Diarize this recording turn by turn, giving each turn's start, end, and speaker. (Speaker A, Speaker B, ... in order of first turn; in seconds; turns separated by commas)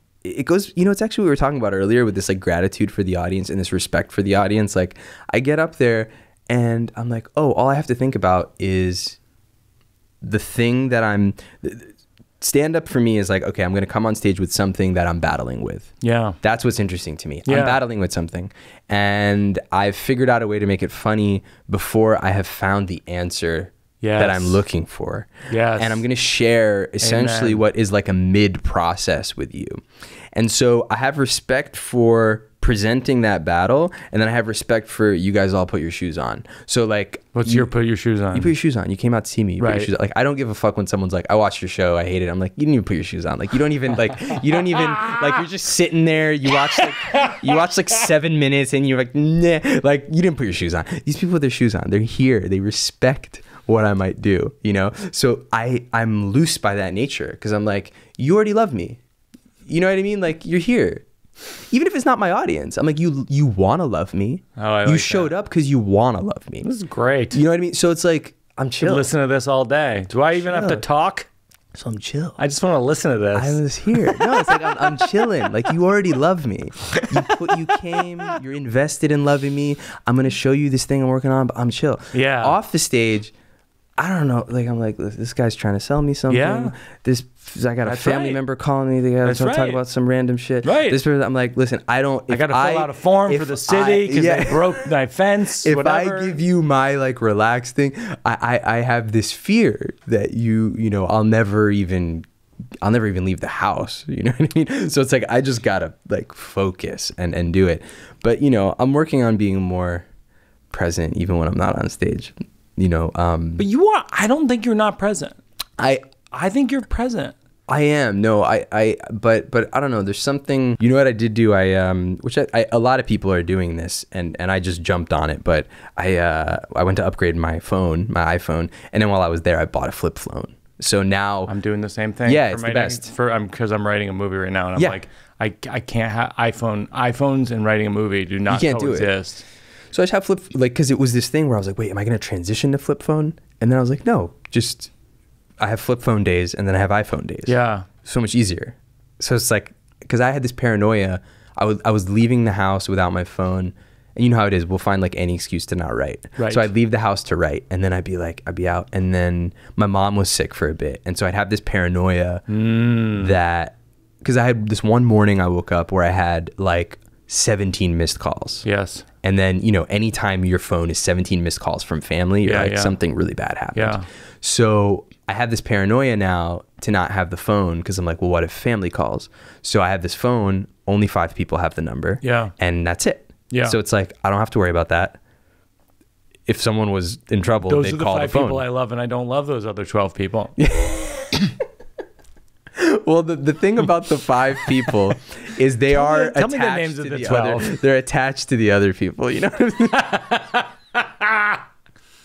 Speaker A: 0.2-9.2, Speaker A: 10.2-29.8, Speaker B: 16.0-16.4, Speaker B: 17.5-17.8, Speaker B: 24.0-24.6, Speaker B: 25.5-26.0, Speaker B: 27.0-27.6, Speaker A: 30.3-37.7, Speaker B: 37.4-38.5, Speaker A: 38.3-59.0, Speaker B: 39.6-39.9, Speaker B: 47.1-47.4, Speaker A: 59.7-61.0, Speaker A: 61.7-66.7, Speaker B: 64.6-65.3, Speaker B: 66.6-67.4, Speaker A: 67.3-69.1, Speaker B: 68.8-71.3, Speaker A: 70.4-70.8, Speaker A: 71.8-72.4, Speaker B: 72.4-75.3, Speaker A: 73.3-83.3, Speaker B: 76.9-77.8, Speaker B: 82.1-82.6, Speaker A: 84.0-94.9, Speaker B: 86.3-86.7, Speaker B: 87.8-88.4, Speaker B: 89.2-89.8, Speaker B: 90.6-91.0, Speaker B: 92.3-96.4, Speaker A: 95.6-102.2, Speaker A: 102.8-110.1, Speaker A: 110.7-113.6, Speaker B: 113.6-115.4, Speaker A: 115.8-116.1, Speaker B: 116.3-117.3, Speaker A: 117.7-131.5, Speaker B: 131.5-139.4, Speaker A: 132.2-133.1, Speaker A: 138.5-139.1, Speaker A: 139.9-144.9, Speaker A: 145.6-162.4, Speaker B: 147.5-147.9, Speaker B: 156.4-156.7, Speaker B: 162.5-163.4, Speaker A: 163.1-168.7, Speaker B: 168.7-169.1, Speaker A: 169.2-185.2, Speaker B: 172.4-173.0, Speaker B: 173.8-174.1, Speaker B: 182.2-182.5, Speaker B: 183.5-183.8, Speaker A: 186.5-188.6, Speaker B: 187.7-190.6, Speaker A: 190.6-191.2, Speaker A: 192.8-200.0, Speaker B: 195.9-197.7, Speaker B: 199.9-201.6